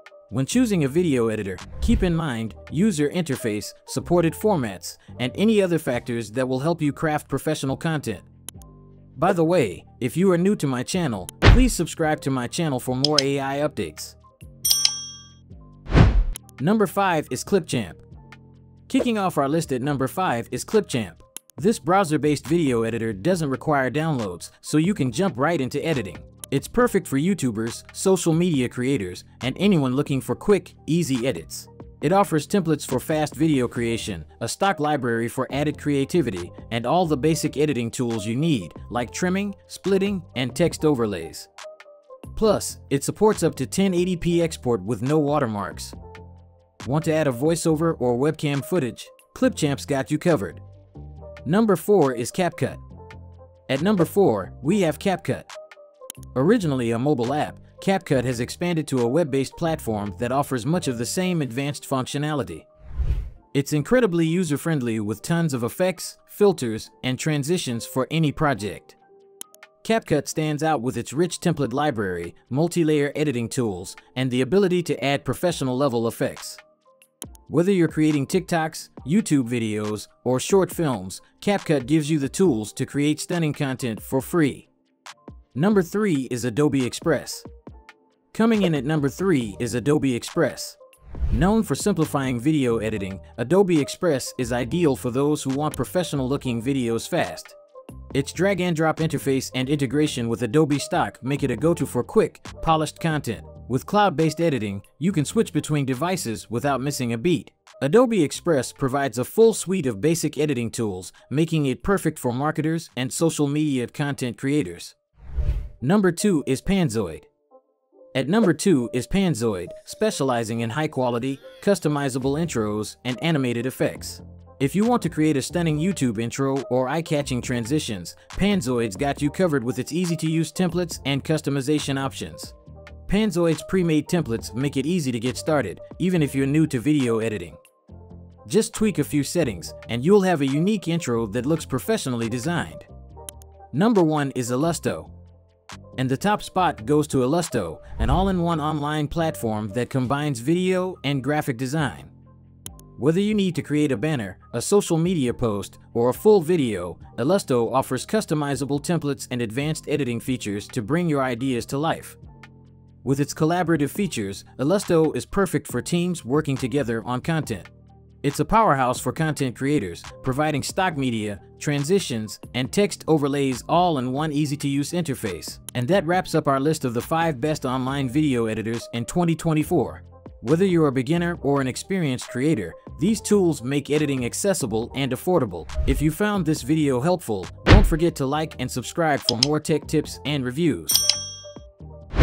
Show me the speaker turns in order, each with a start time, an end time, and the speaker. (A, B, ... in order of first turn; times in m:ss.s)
0:00.3-0:08.3 A
0:09.2-0:14.2 A
0:16.6-0:18.0 A
0:18.9-0:41.5 A
0:42.3-0:46.0 A
0:46.8-0:50.6 A
0:51.4-0:52.8 A
0:53.7-0:55.5 A
0:56.3-1:02.7 A
1:03.5-1:09.0 A
1:09.8-1:16.6 A
1:17.5-1:24.7 A
1:25.6-1:27.5 A
1:28.3-1:30.8 A
1:31.3-1:37.6 A
1:38.1-1:55.0 A
1:55.8-1:57.3 A
1:58.1-2:12.6 A
2:13.1-2:17.6 A
2:18.5-2:22.9 A
2:23.7-2:25.1 A
2:26.0-2:32.1 A
2:33.0-2:42.2 A
2:43.0-2:47.7 A
2:48.2-3:11.0 A